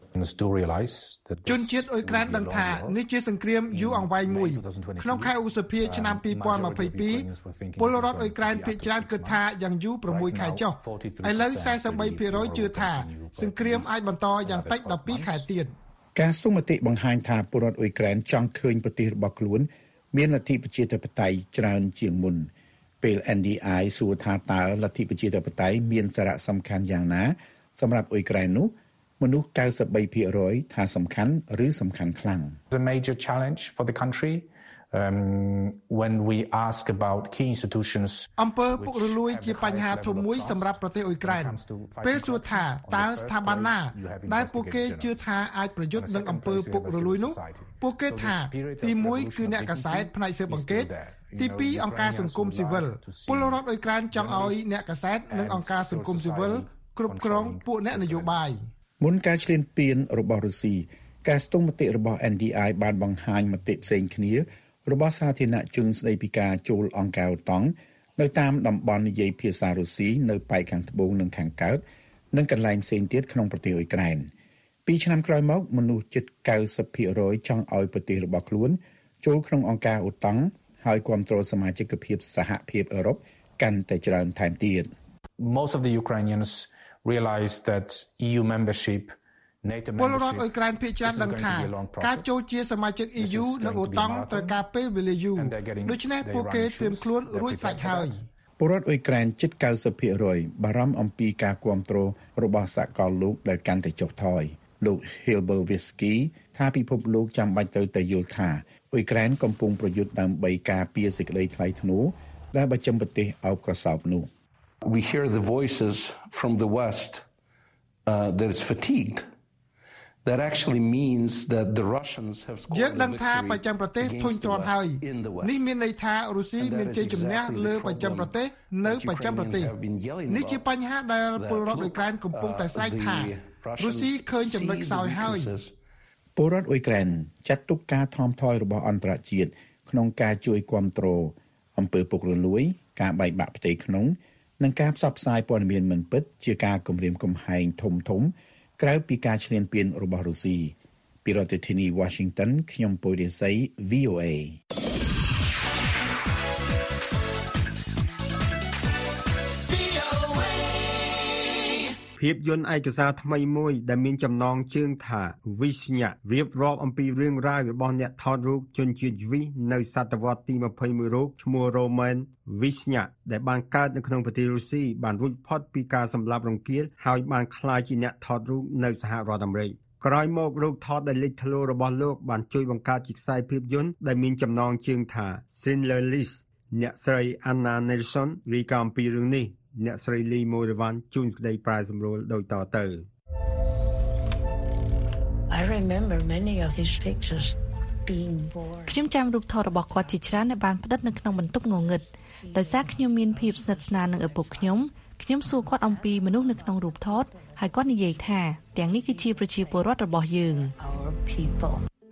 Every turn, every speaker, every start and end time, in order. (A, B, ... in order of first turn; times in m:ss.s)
0:00.1-0:03.0 A
0:01.4-0:15.7 B
0:03.7-0:15.5 A
0:16.1-0:32.6 C
0:32.7-0:45.4 A
0:38.4-0:58.6 B
0:45.9-0:58.4 A
0:59.0-1:14.3 C
1:14.8-1:24.9 C
1:25.4-1:30.5 A
1:30.0-1:38.2 B
1:31.0-1:32.2 A
1:33.2-1:34.6 A
1:35.4-1:38.2 A
1:38.6-1:54.3 C
1:54.8-1:57.2 D
1:58.0-1:59.3 D
2:00.2-2:05.7 D
2:02.7-2:09.7 B
2:06.6-2:10.7 D
2:10.3-2:15.5 B
2:11.3-2:15.7 D
2:16.4-2:34.6 C
2:42.2-3:13.1 E
3:15.5-3:17.5 F
3:18.0-3:19.1 F
3:18.9-3:30.7 G
3:19.8-3:31.8 F